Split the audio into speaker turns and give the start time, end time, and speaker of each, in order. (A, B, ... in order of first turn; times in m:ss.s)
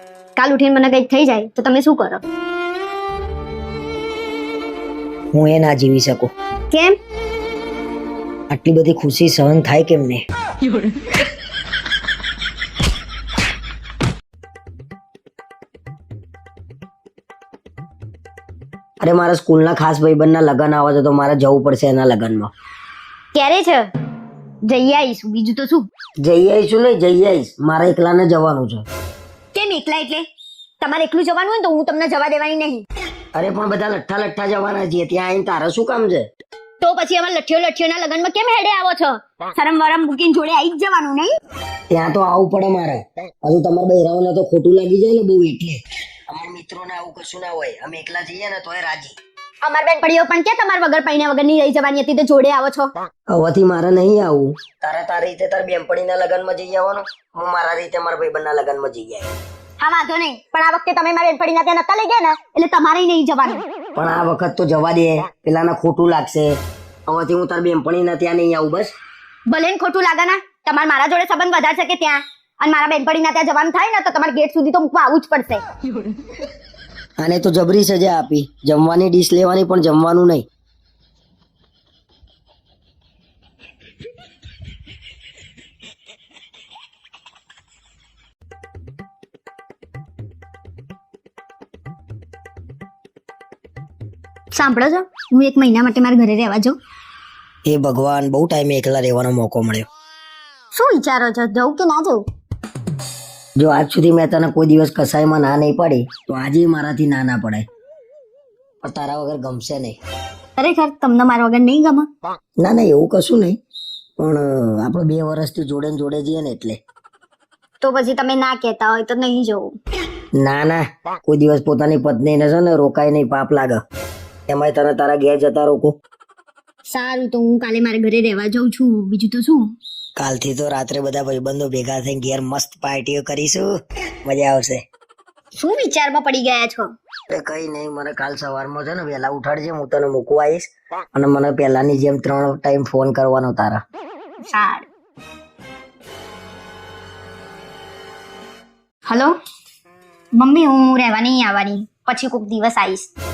0:00.4-0:02.2 A
0:05.3-0:06.3 B
0:06.7-0:07.0 A
0:08.5-0:10.2 B
0:19.0-0:22.5 B
0:23.3-0:23.9 A
0:24.6-0:25.9 A
0:26.2-0:28.8 B
0:29.5-0:30.3 A
0:30.8-0:32.8 A
0:33.3-0:36.3 B
0:36.8-0:41.4 A
0:41.9-0:49.2 B
0:49.6-0:52.9 A
0:53.3-0:59.3 B
0:59.8-1:03.6 A
1:04.0-1:09.0 B
1:09.5-1:15.6 A
1:17.2-1:20.5 B
1:34.5-1:36.8 A
1:37.7-1:39.9 B
1:40.7-1:42.2 A
1:43.6-1:47.7 B
1:48.8-1:50.0 B
1:50.6-1:52.1 A
1:52.6-1:53.6 B
1:54.2-1:56.8 B
1:57.8-1:59.7 A
2:00.4-2:03.8 B
2:04.5-2:06.0 B
2:06.9-2:09.7 A
2:10.2-2:13.7 B
2:14.2-2:14.8 B
2:15.6-2:16.9 A
2:17.3-2:23.8 B
2:24.4-2:24.9 A
2:29.1-2:29.3 A
2:30.3-2:33.1 A